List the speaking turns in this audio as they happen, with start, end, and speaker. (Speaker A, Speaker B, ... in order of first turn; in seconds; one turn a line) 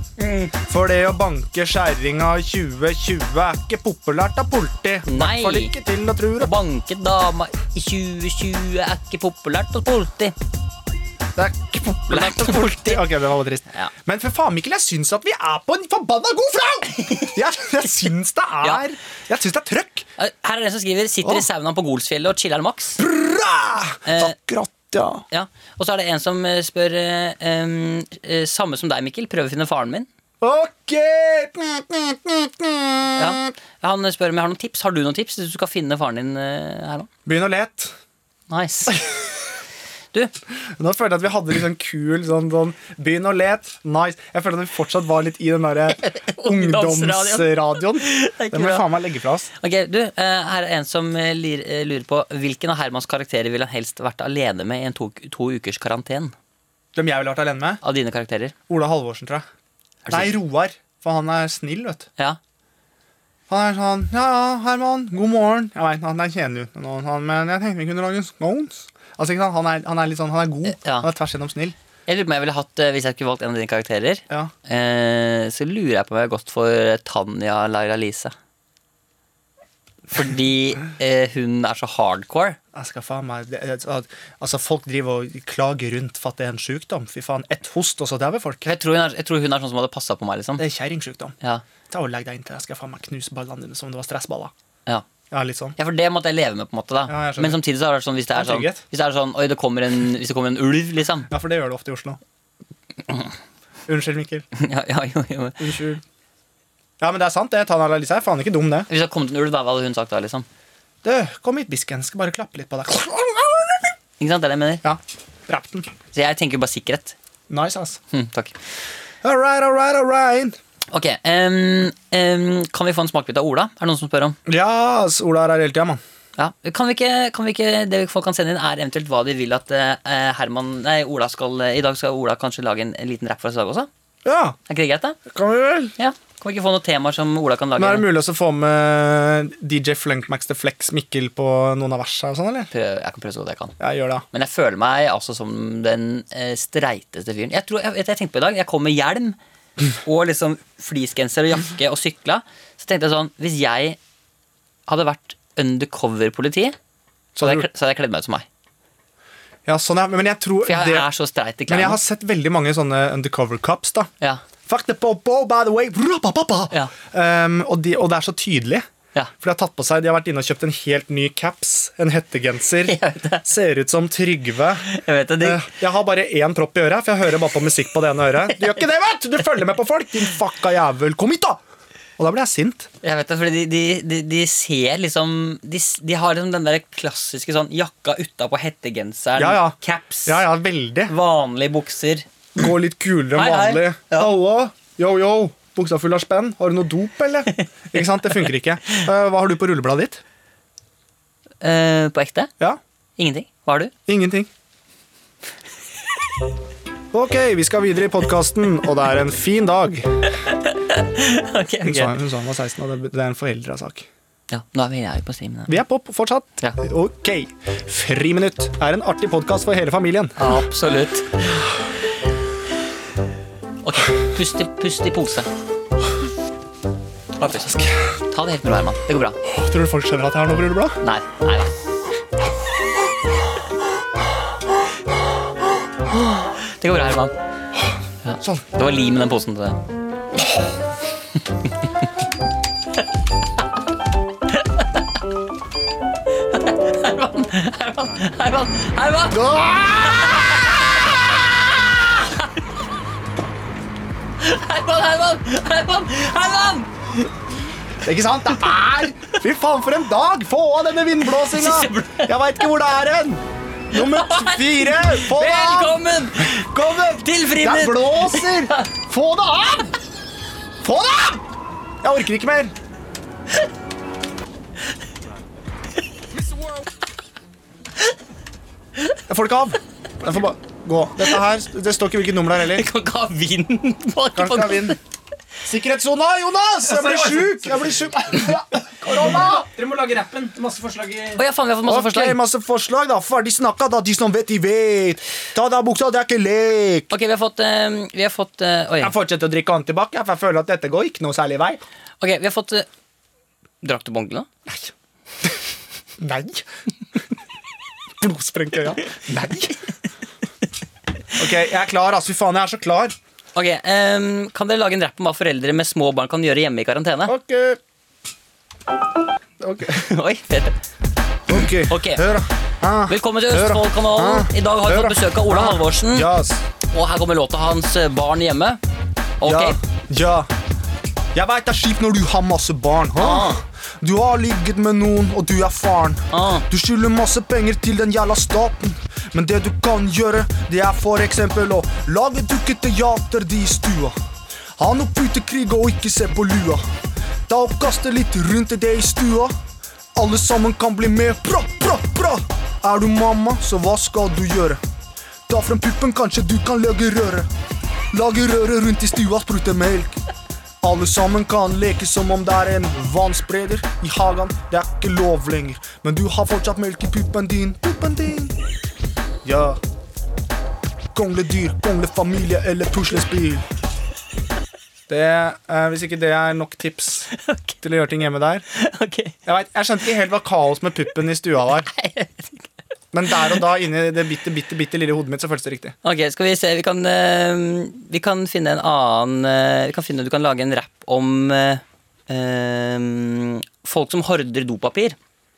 Speaker A: 0.2-0.5
Speaker B: 0.6-6.5
Speaker A: 5.0-5.7
Speaker A: 6.4-10.3
Speaker B: 11.3-20.1
Speaker A: 12.1-13.1
Speaker A: 16.9-17.3
Speaker A: 20.2-23.0
Speaker B: 23.0-25.2
Speaker A: 24.0-24.3
Speaker A: 25.3-30.1
Speaker B: 30.4-33.5
Speaker A: 33.1-37.1
Speaker B: 37.2-37.9
Speaker A: 38.5-39.0
Speaker B: 40.8-49.5
Speaker A: 45.9-48.9
Speaker A: 49.6-56.3
Speaker B: 56.9-57.8
Speaker A: 57.8-58.5
Speaker B: 58.7-59.5
Speaker A: 60.0-60.3
Speaker B: 60.1-62.1
Speaker B: 63.5-71.7
Speaker A: 70.6-71.1
Speaker A: 72.1-78.3
Speaker A: 80.1-82.6
Speaker B: 82.7-88.7
Speaker A: 88.6-90.6
Speaker B: 90.6-91.3
Speaker B: 91.9-94.5
Speaker B: 95.3-95.8
Speaker A: 95.8-101.3
Speaker B: 97.1-97.6
Speaker B: 98.3-98.8
Speaker B: 101.3-102.2
Speaker B: 103.9-104.5
Speaker A: 104.5-105.6
Speaker B: 105.6-106.0
Speaker B: 107.0-108.9
Speaker A: 108.9-110.5
Speaker B: 111.0-113.9
Speaker A: 114.2-114.8
Speaker B: 114.8-115.9
Speaker A: 116.1-117.2
Speaker B: 117.5-118.0
Speaker A: 118.1-118.5
Speaker B: 119.2-120.6
Speaker A: 120.9-124.4
Speaker B: 124.5-126.0
Speaker A: 126.4-133.9
Speaker B: 134.2-134.6
Speaker A: 134.7-135.2
Speaker B: 135.3-135.9
Speaker A: 136.0-138.1
Speaker B: 137.8-142.7
Speaker A: 142.7-143.8
Speaker B: 143.8-144.2
Speaker A: 144.3-149.4
Speaker A: 150.0-154.0
Speaker A: 154.9-156.8
Speaker B: 157.3-157.7
Speaker A: 157.4-158.4
Speaker B: 159.7-161.1
Speaker A: 160.6-162.0
Speaker B: 161.7-164.1
Speaker B: 164.7-168.8
Speaker B: 169.4-174.9
Speaker A: 172.8-173.5
Speaker A: 174.8-175.7
Speaker B: 175.4-181.6
Speaker B: 182.2-182.9
Speaker A: 183.0-190.4
Speaker B: 189.4-191.1
Speaker A: 191.1-192.2
Speaker B: 192.6-200.2
Speaker A: 193.3-194.3
Speaker A: 201.6-202.5
Speaker A: 203.2-203.9
Speaker B: 204.1-204.5
Speaker B: 207.1-210.2
Speaker A: 210.4-212.2
Speaker B: 211.8-214.1
Speaker A: 214.5-215.8
Speaker B: 215.7-220.6
Speaker A: 220.4-221.7
Speaker A: 223.8-225.5
Speaker A: 227.4-229.4
Speaker B: 229.4-231.0
Speaker A: 231.0-231.7
Speaker A: 236.6-237.3
Speaker A: 238.2-239.8
Speaker A: 246.5-249.4
Speaker B: 249.3-251.1
Speaker A: 250.1-251.1
Speaker A: 254.4-257.3
Speaker B: 258.0-269.9
Speaker A: 261.4-262.3
Speaker A: 263.9-268.9
Speaker B: 270.8-271.4
Speaker B: 272.0-272.7
Speaker B: 279.3-282.9
Speaker A: 282.7-285.0
Speaker B: 284.3-285.0
Speaker B: 285.6-289.6
Speaker C: 286.9-287.9
Speaker C: 289.0-291.4
Speaker A: 291.4-292.4
Speaker B: 291.9-297.1
Speaker A: 297.1-299.1
Speaker B: 299.0-301.8
Speaker A: 302.2-302.9
Speaker A: 303.8-304.5
Speaker B: 306.2-306.6
Speaker B: 308.2-309.8
Speaker B: 311.4-313.1
Speaker A: 313.5-317.3
Speaker B: 317.2-317.8
Speaker B: 319.6-320.0
Speaker A: 319.9-320.8
Speaker B: 321.5-326.6
Speaker A: 321.9-322.3
Speaker A: 323.1-326.3
Speaker A: 326.9-328.8
Speaker A: 329.4-329.8
Speaker B: 329.4-330.5
Speaker B: 331.3-344.2
Speaker A: 333.2-333.6
Speaker A: 336.3-336.6
Speaker B: 344.8-346.9
Speaker B: 347.5-349.5
Speaker B: 350.1-354.8
Speaker B: 355.5-357.5
Speaker B: 358.1-360.2
Speaker B: 360.8-368.6
Speaker B: 369.4-369.8
Speaker B: 371.1-373.6
Speaker B: 375.1-377.3
Speaker A: 377.3-377.8
Speaker B: 377.8-378.6
Speaker A: 378.7-379.3
Speaker B: 379.4-381.9
Speaker A: 381.9-382.6
Speaker B: 383.1-385.9
Speaker A: 386.0-395.1